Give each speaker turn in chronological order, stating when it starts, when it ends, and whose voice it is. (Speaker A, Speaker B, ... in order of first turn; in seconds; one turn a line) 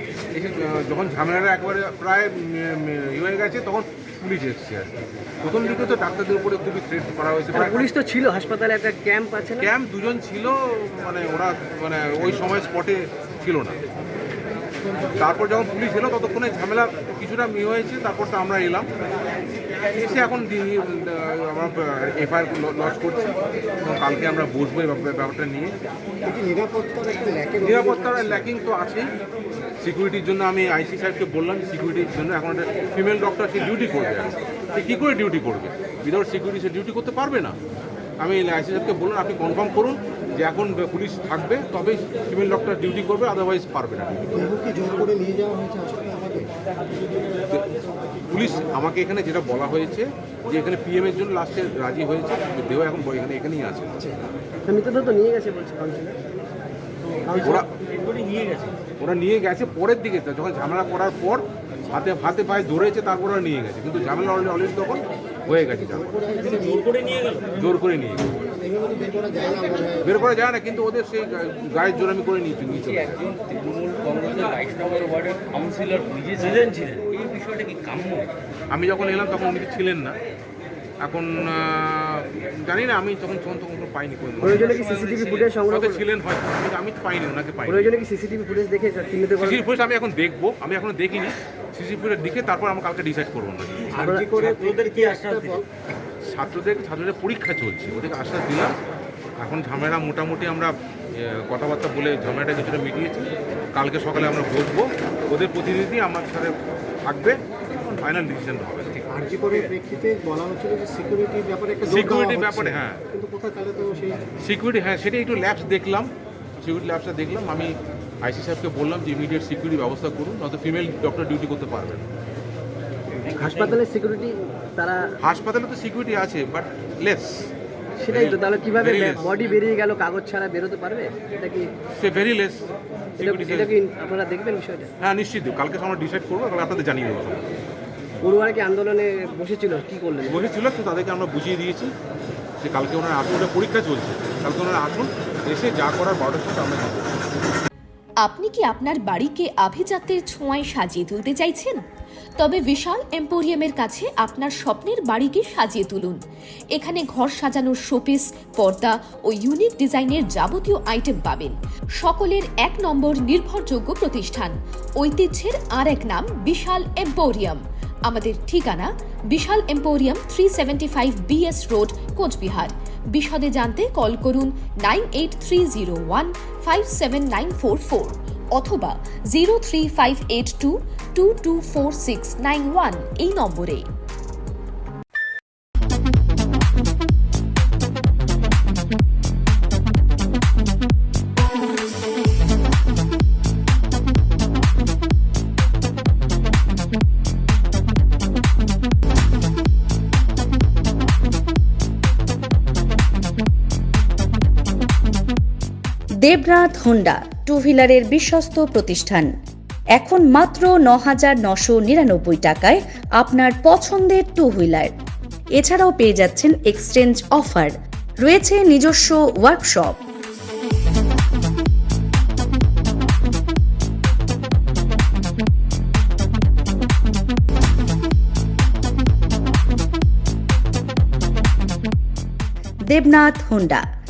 Speaker A: 0.3-7.9
Speaker B: 8.0-9.5
Speaker A: 9.6-13.8
Speaker A: 15.2-18.9
Speaker A: 19.9-25.7
Speaker C: 26.2-28.5
Speaker A: 27.6-29.1
Speaker A: 29.8-37.5
Speaker A: 38.2-44.2
Speaker C: 44.3-46.5
Speaker A: 48.3-54.0
Speaker B: 54.7-56.1
Speaker A: 57.4-57.7
Speaker A: 59.0-66.3
Speaker C: 65.9-67.2
Speaker A: 67.5-68.2
Speaker C: 68.5-70.2
Speaker A: 70.0-73.4
Speaker D: 73.8-78.2
Speaker A: 78.7-80.2
Speaker A: 81.0-88.0
Speaker B: 84.5-85.9
Speaker B: 87.7-89.4
Speaker A: 89.4-94.0
Speaker C: 93.9-95.6
Speaker A: 96.2-98.7
Speaker A: 99.4-106.5
Speaker A: 107.1-109.0
Speaker C: 109.1-114.3
Speaker A: 111.8-113.0
Speaker A: 114.4-116.1
Speaker A: 116.6-122.0
Speaker A: 123.4-123.8
Speaker B: 123.5-125.0
Speaker A: 125.2-127.5
Speaker A: 128.1-129.4
Speaker B: 128.1-129.0
Speaker B: 129.5-131.6
Speaker A: 132.0-132.7
Speaker A: 133.2-133.8
Speaker B: 133.2-134.9
Speaker A: 135.0-137.4
Speaker B: 138.2-140.1
Speaker A: 140.2-141.9
Speaker A: 142.6-147.2
Speaker E: 148.2-151.8
Speaker E: 152.4-156.2
Speaker E: 156.7-183.8
Speaker F: 206.2-209.3
Speaker F: 209.9-214.9
Speaker F: 215.6-220.0
Speaker F: 232.9-233.8